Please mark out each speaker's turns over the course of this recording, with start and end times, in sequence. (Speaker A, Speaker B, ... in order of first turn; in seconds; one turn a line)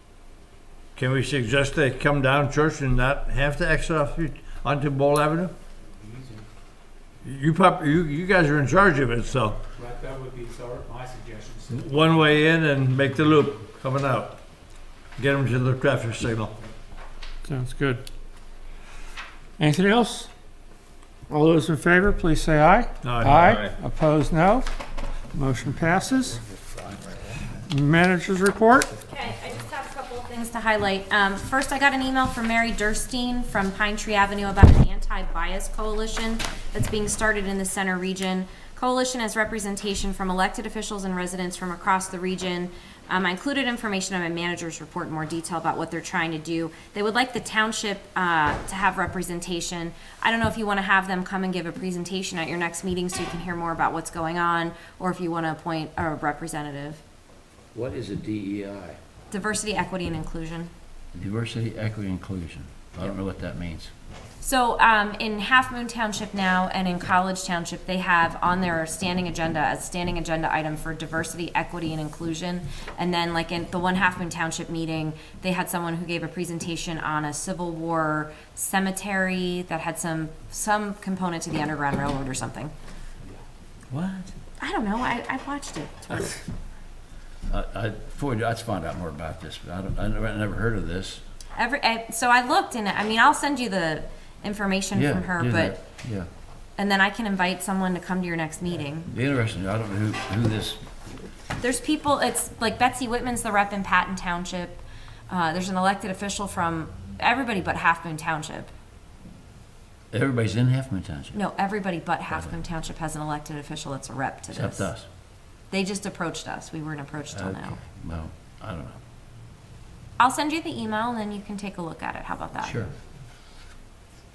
Speaker A: 0.9-5.5
Speaker B: 6.0-6.4
Speaker A: 7.2-9.6
Speaker B: 9.7-12.2
Speaker A: 11.7-14.4
Speaker A: 15.2-16.5
Speaker C: 17.4-18.0
Speaker C: 19.6-20.3
Speaker C: 21.3-24.7
Speaker A: 23.0-23.7
Speaker C: 25.3-26.4
Speaker C: 27.7-28.9
Speaker D: 29.1-57.0
Speaker E: 57.7-59.0
Speaker D: 59.3-60.7
Speaker E: 61.1-63.9
Speaker D: 64.4-82.7
Speaker E: 83.9-84.3
Speaker D: 84.6-86.4
Speaker E: 87.5-91.2
Speaker D: 91.5-95.8
Speaker E: 94.9-96.3
Speaker D: 96.8-99.1
Speaker E: 99.1-100.8
Speaker D: 101.6-108.7
Speaker E: 110.1-111.4
Speaker D: 111.3-114.9
Speaker E: 114.5-115.1
Speaker D: 115.7-117.8
Speaker E: 117.3-119.0
Speaker D: 120.2-122.8
Speaker E: 122.6-122.9